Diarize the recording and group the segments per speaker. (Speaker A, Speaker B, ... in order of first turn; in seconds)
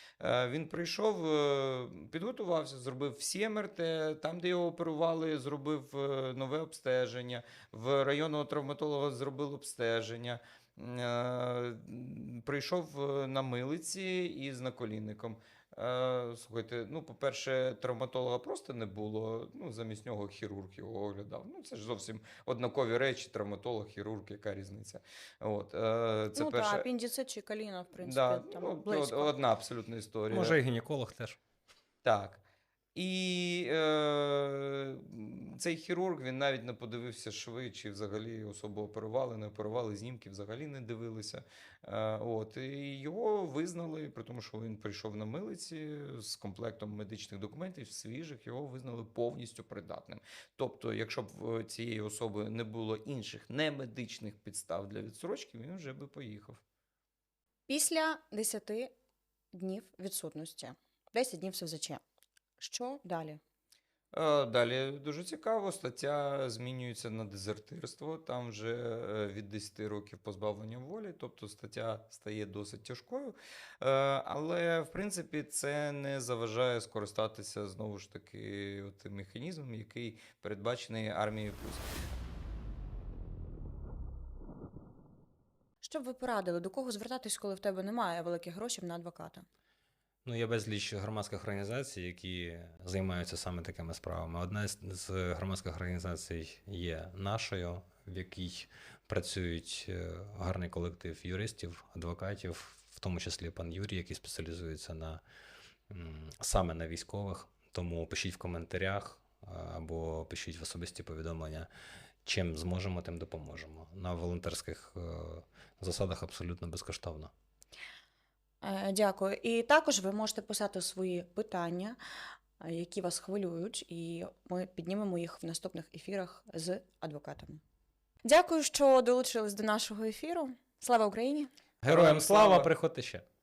Speaker A: 0.2-26.9, 28.0-30.6, 32.0-32.4, 33.0-56.6, 64.1-81.8, 131.9-132.7
Speaker B: 26.4-29.4, 57.7-58.9, 59.5-62.0, 62.6-63.4, 85.8-89.5, 118.6-122.0, 122.6-127.6, 128.2-131.5
Speaker C: 30.3-31.4, 90.2-105.2, 105.9-111.7, 112.2-117.3, 131.8-133.2